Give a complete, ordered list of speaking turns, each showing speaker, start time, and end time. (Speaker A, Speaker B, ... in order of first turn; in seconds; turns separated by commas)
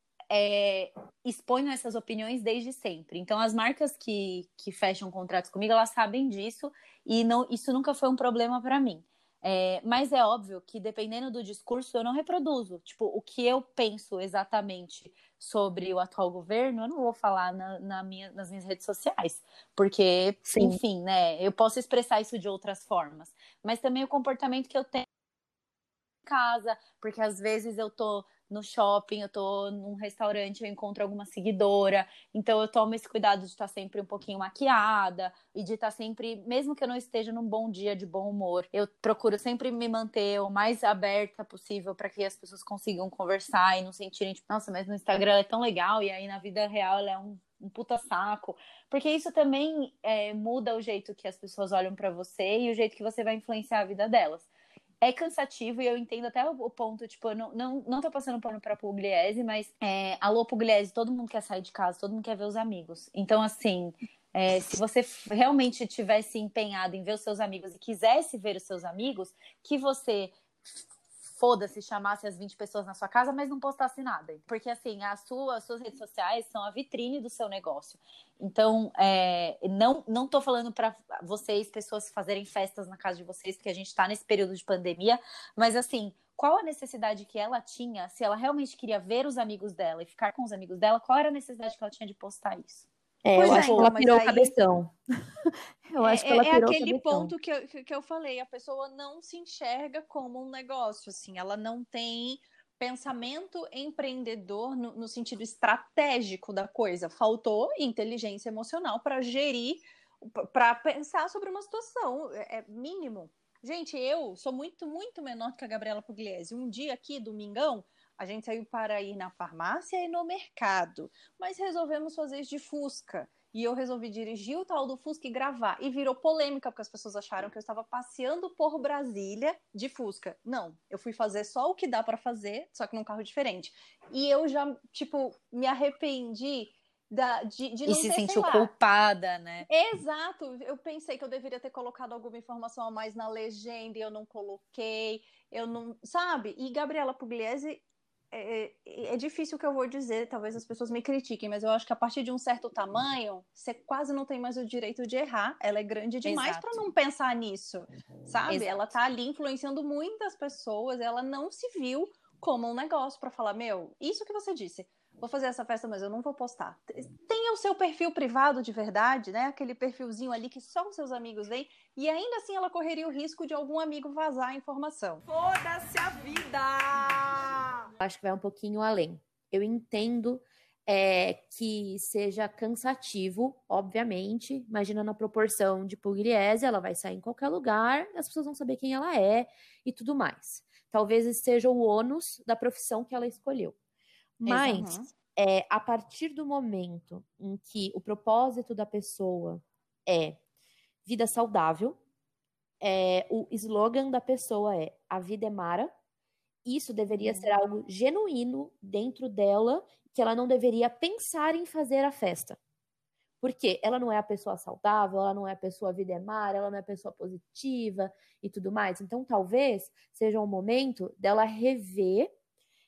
Speaker A: 0.3-25.1, Speaker B: 20.5-20.8, Speaker A: 26.2-54.5, Speaker A: 55.0-92.9, Speaker B: 93.2-97.3, Speaker C: 93.3-94.5, Speaker A: 93.4-93.9, Speaker C: 96.0-138.7, Speaker A: 137.9-139.7, Speaker C: 139.7-177.9, Speaker A: 156.2-156.8, Speaker B: 178.0-193.8, Speaker B: 194.4-200.4, Speaker C: 194.5-195.1, Speaker B: 201.1-202.0, Speaker B: 202.8-205.9, Speaker B: 206.7-212.6, Speaker C: 207.2-207.5, Speaker B: 213.4-222.3